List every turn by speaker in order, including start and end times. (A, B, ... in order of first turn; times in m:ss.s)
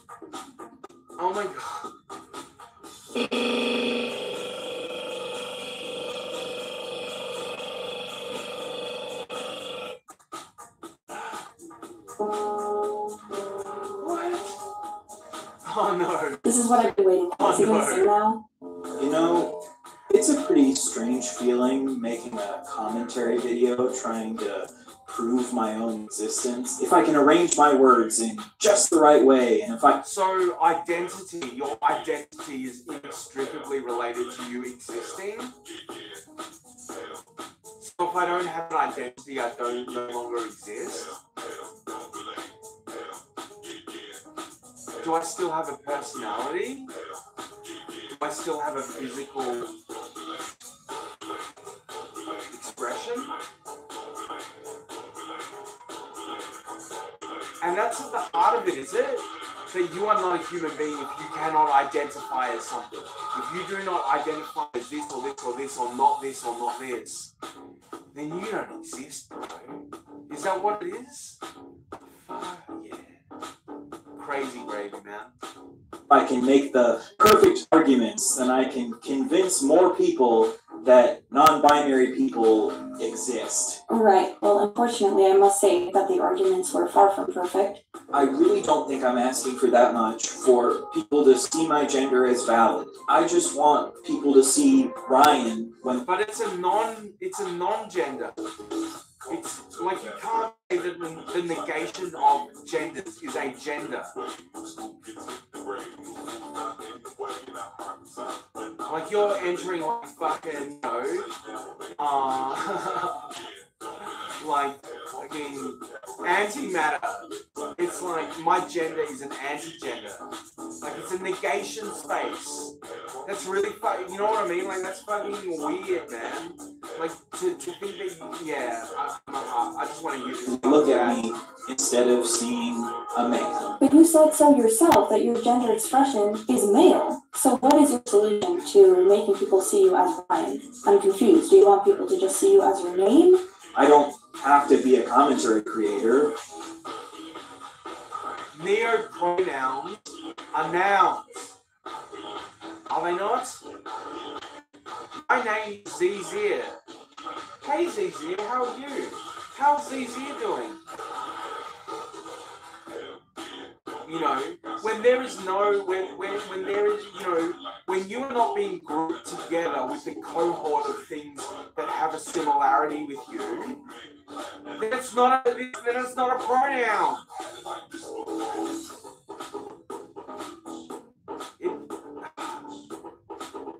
0:01.2-0:01.9 A
0:14.0-0:14.6 A
0:15.6-0:16.4 A
0:16.4-0:18.4 B
0:17.4-0:18.1 A
0:19.0-0:19.6 C
0:20.1-0:30.0 C
0:30.0-0:35.5 A
0:37.8-0:41.1 A
0:45.0-0:46.9 A
0:48.1-0:49.7 A
0:52.5-0:53.3 A
0:57.6-1:07.3 A
1:08.1-1:11.4 A
1:12.2-1:13.2 A
1:14.2-1:15.3 A
1:16.1-1:23.8 C
1:23.9-1:27.8 B
1:28.1-1:36.0 C
1:36.0-1:38.4 A
1:39.3-1:44.1 A
1:48.8-1:51.3 A
1:52.0-1:53.3 A
1:54.4-2:00.2 A
2:00.8-2:02.7 A
2:03.2-2:11.2 A
2:10.5-2:13.8 C
2:13.8-2:23.4 B
2:23.7-2:26.3 C
2:28.5-2:31.5 A
2:32.9-2:33.6 A
2:35.2-2:36.8 A
2:37.6-2:40.8 A
2:44.0-2:53.8 A
2:54.8-2:57.2 A
3:01.6-3:02.5 A